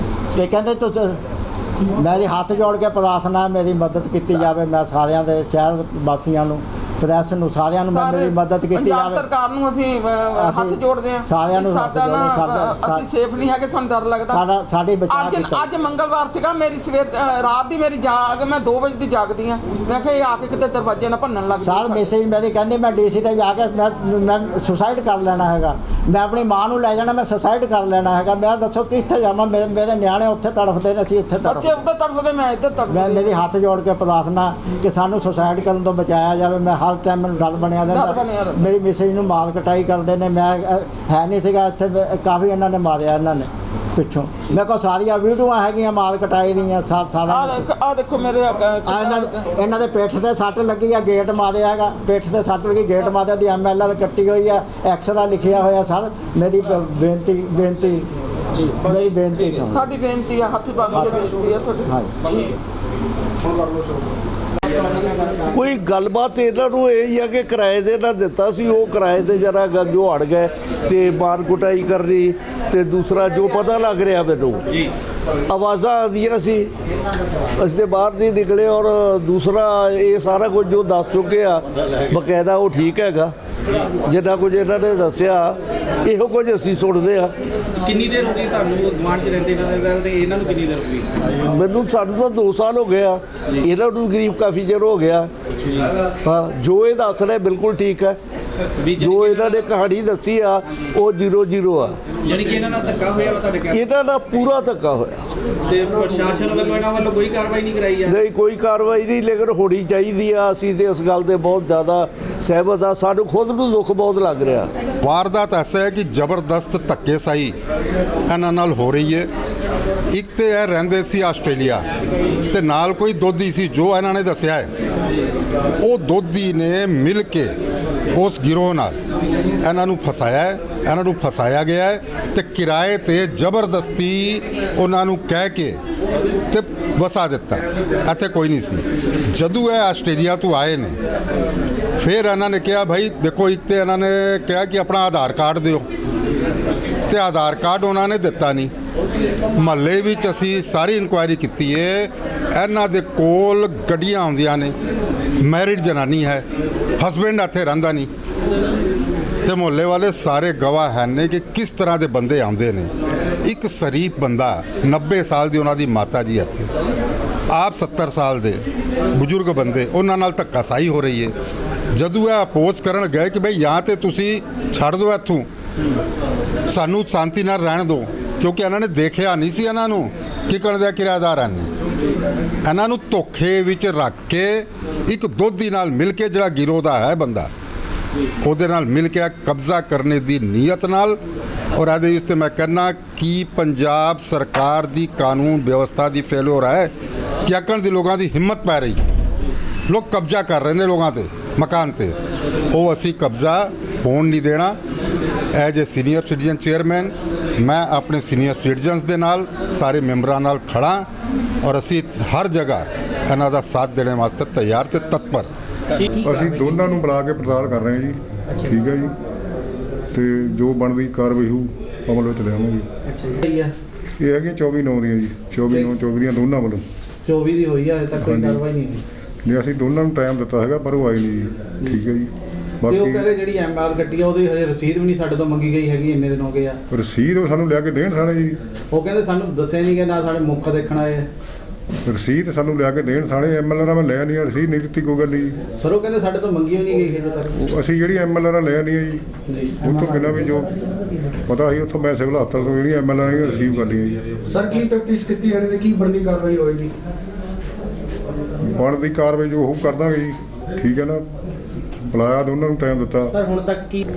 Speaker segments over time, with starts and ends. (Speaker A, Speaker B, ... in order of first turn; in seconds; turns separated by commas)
Speaker A: 0.3-1.2, Speaker A: 1.9-9.2, Speaker B: 7.9-14.4, Speaker A: 10.3-13.1, Speaker A: 14.3-15.7, Speaker B: 15.1-22.0, Speaker A: 21.6-31.8, Speaker B: 31.4-33.3, Speaker A: 32.9-47.7, Speaker B: 37.9-38.6, Speaker B: 47.3-49.4, Speaker A: 48.9-58.0, Speaker A: 58.8-59.9, Speaker B: 59.6-61.9, Speaker A: 60.9-61.2, Speaker A: 61.9-62.1, Speaker C: 63.4-64.0, Speaker D: 65.5-74.6, Speaker D: 75.5-76.7, Speaker D: 77.5-83.3, Speaker D: 84.0-87.3, Speaker E: 87.8-91.2, Speaker D: 91.4-95.3, Speaker D: 96.2-98.2, Speaker E: 98.8-99.7, Speaker D: 98.9-102.0, Speaker E: 102.2-103.8, Speaker D: 103.6-105.3, Speaker E: 105.6-108.2, Speaker D: 108.0-114.7, Speaker F: 115.0-117.5, Speaker F: 118.3-119.3, Speaker F: 120.1-121.8, Speaker F: 122.5-124.7, Speaker F: 125.8-127.5, Speaker F: 128.1-129.0, Speaker F: 129.6-135.8, Speaker F: 136.5-140.9, Speaker F: 142.0-145.9, Speaker F: 147.1-148.7, Speaker F: 149.6-154.7, Speaker F: 155.4-156.4, Speaker F: 157.0-158.1, Speaker F: 159.4-162.9, Speaker F: 163.4-166.7, Speaker F: 167.5-168.6, Speaker F: 169.1-171.3, Speaker F: 171.9-175.5, Speaker F: 176.7-181.7, Speaker F: 182.6-187.5, Speaker F: 188.4-191.2, Speaker F: 191.7-196.9, Speaker F: 197.4-199.1, Speaker F: 199.9-202.2, Speaker F: 202.7-204.8, Speaker F: 205.5-211.1, Speaker F: 211.6-215.5, Speaker G: 216.2-219.1, Speaker G: 220.1-222.8, Speaker E: 223.1-223.7, Speaker G: 224.2-226.8, Speaker E: 227.2-229.0, Speaker G: 228.2-228.6, Speaker G: 229.4-232.3, Speaker G: 232.8-233.3, Speaker E: 232.9-236.8, Speaker G: 236.9-238.6, Speaker E: 238.9-241.3, Speaker G: 242.1-245.6, Speaker E: 245.8-247.5, Speaker G: 247.6-249.2, Speaker E: 249.5-249.9, Speaker G: 249.8-250.8, Speaker G: 251.4-254.3, Speaker C: 254.5-256.9, Speaker G: 258.6-261.2, Speaker G: 262.1-263.4, Speaker E: 263.3-264.0